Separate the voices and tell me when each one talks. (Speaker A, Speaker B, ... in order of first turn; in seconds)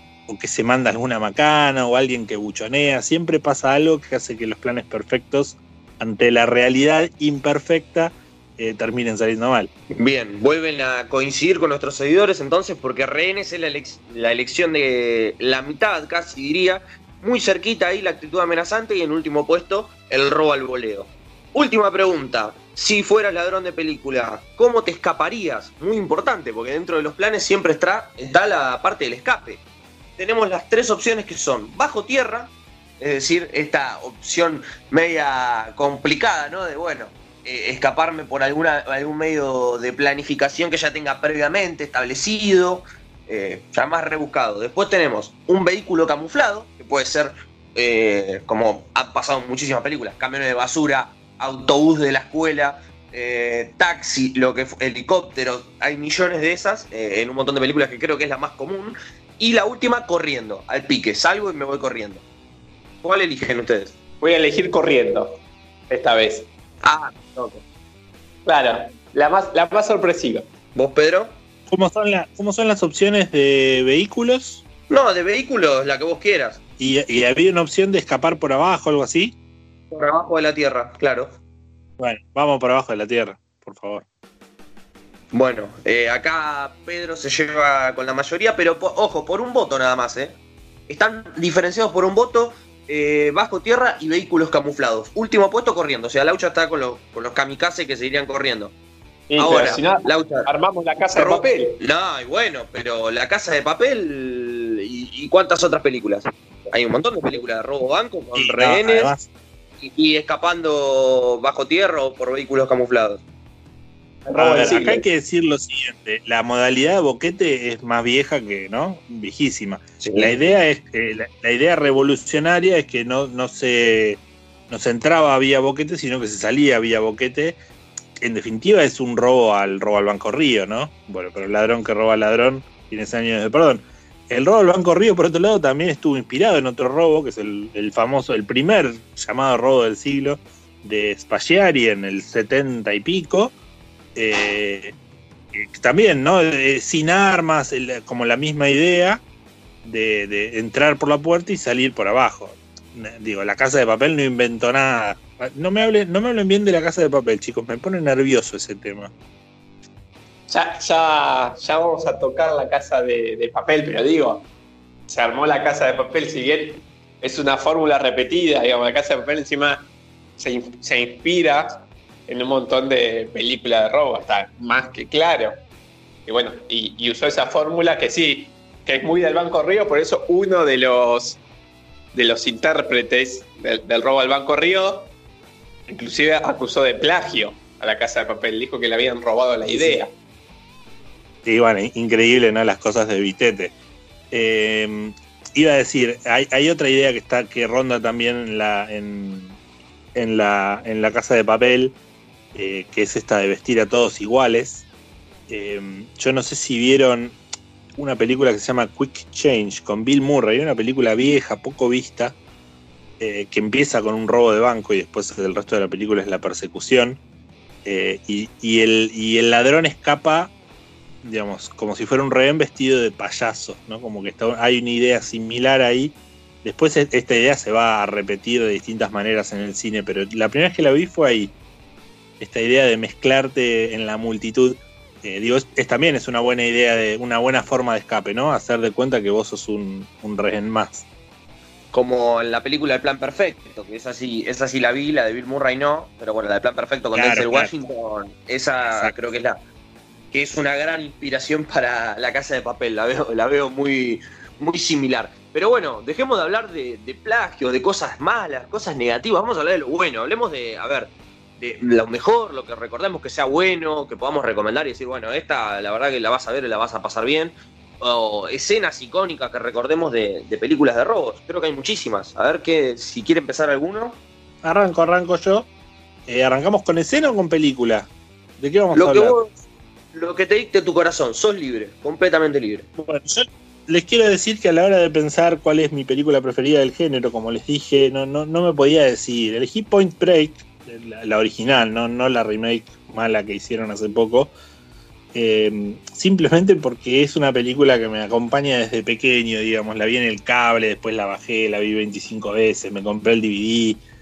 Speaker A: 0.3-9.7, 71.7-74.6, 76.8-79.3, 82.0-84.0, 108.3-109.3, 114.3-127.6, 128.2-143.5, 144.2-144.9, 145.5-149.2, 149.8-159.1, 189.7-190.0, 191.4-193.7, 194.3-199.6, 200.1-201.9, 202.5-204.8, 205.5-207.4, 208.0-212.3, 213.2-217.2, 217.8-220.5, 221.2-231.5, 232.4-241.0, 247.1-247.7, 274.6-275.7, 276.3-279.4, 283.0-294.5, 295.3-304.0
Speaker B: 9.9-29.6, 30.2-62.2, 63.0-63.9, 66.8-67.6, 70.7-71.3, 74.9-76.6, 79.9-81.3, 85.3-90.3, 90.9-98.7, 99.4-100.5, 101.1-109.1, 109.8-113.2, 120.0-120.3, 241.9-249.6, 250.3-274.2, 278.9-279.5, 280.1-282.9
Speaker C: 64.2-65.4, 65.9-66.5, 68.5-70.5, 99.3-101.8, 114.2-115.0, 160.5-164.5, 165.1-175.6, 176.3-181.4, 182.1-185.1, 185.9-190.1